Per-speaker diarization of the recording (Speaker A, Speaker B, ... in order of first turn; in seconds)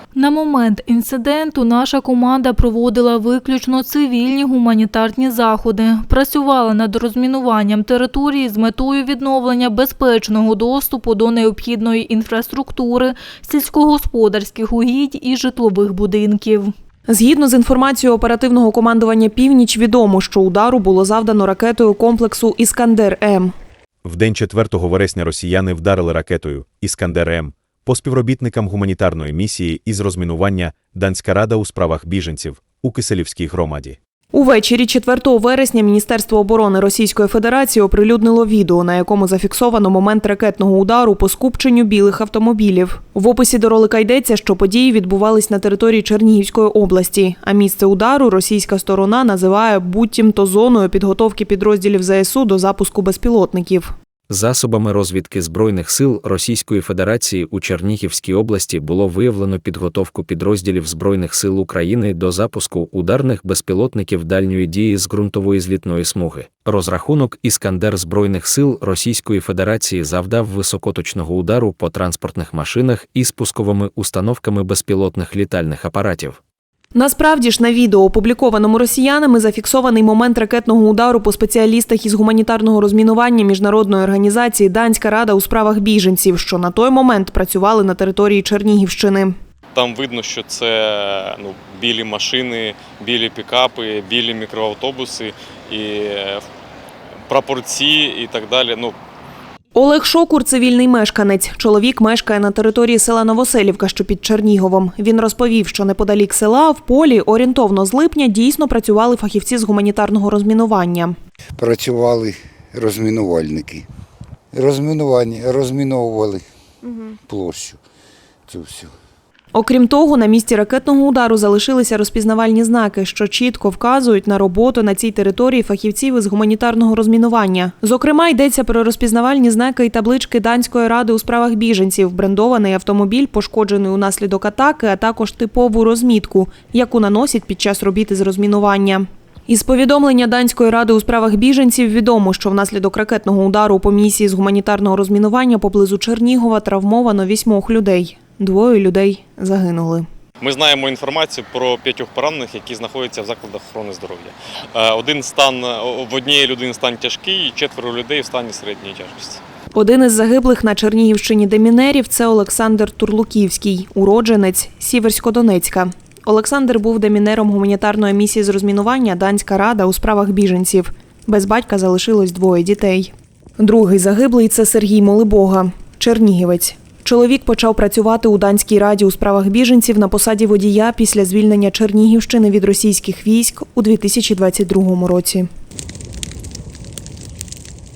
Speaker A: 0.1-16.7
Speaker B: 17.1-23.5, 34.3-53.9, 76.9-89.4, 99.8-111.2, 119.5-150.1, 159.7-185.5
Speaker C: 24.0-34.0
Speaker D: 54.3-76.4
Speaker E: 89.7-96.4, 97.3-99.0, 150.4-159.4
Speaker F: 111.6-113.9, 114.5-116.4, 117.0-117.8, 118.5-118.9